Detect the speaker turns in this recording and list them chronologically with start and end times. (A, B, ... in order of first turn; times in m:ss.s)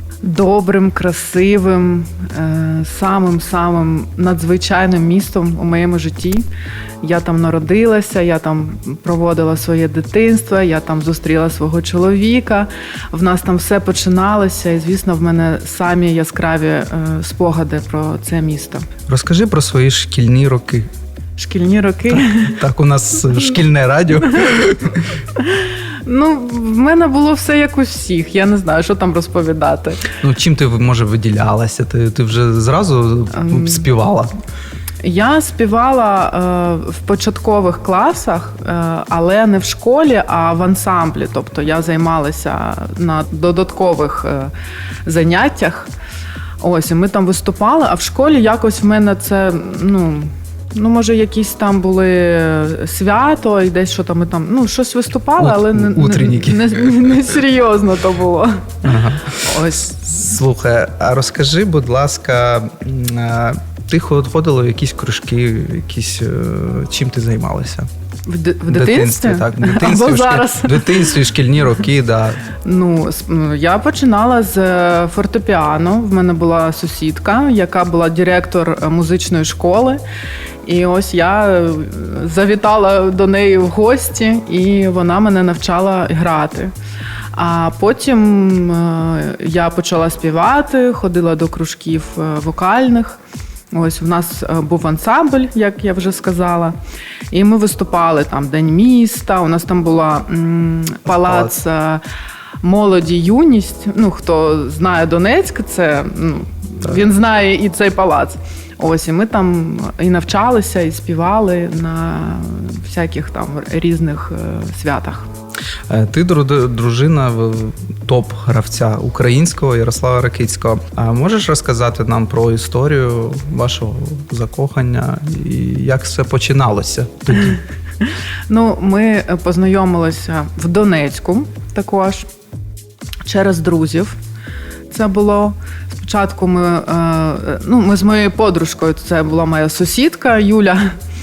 0:00.2-0:06.4 A
0:07.0-0:18.9 A
0:19.1-0:20.9 B
0:21.4-0:22.6 A
0:22.1-0:25.2 B
0:25.4-0:30.1 A
0:30.2-0:34.3 B
0:33.3-0:33.9 A
0:35.0-0:44.5 A
0:45.1-0:45.9 A
0:46.6-1:00.1 A
0:55.4-0:56.9 B
0:58.8-1:07.9 B
1:08.3-1:11.2 A
1:08.7-1:12.4 B
1:12.6-1:20.0 A
1:20.6-1:26.7 A
1:27.4-1:33.2 A
1:33.7-1:36.8 A
1:37.3-1:42.0 A
1:41.1-1:41.6 B
1:42.6-1:55.3 A
1:55.9-2:07.6 B
2:08.0-2:12.3 A
2:13.2-2:14.2 A
2:14.9-2:21.0 A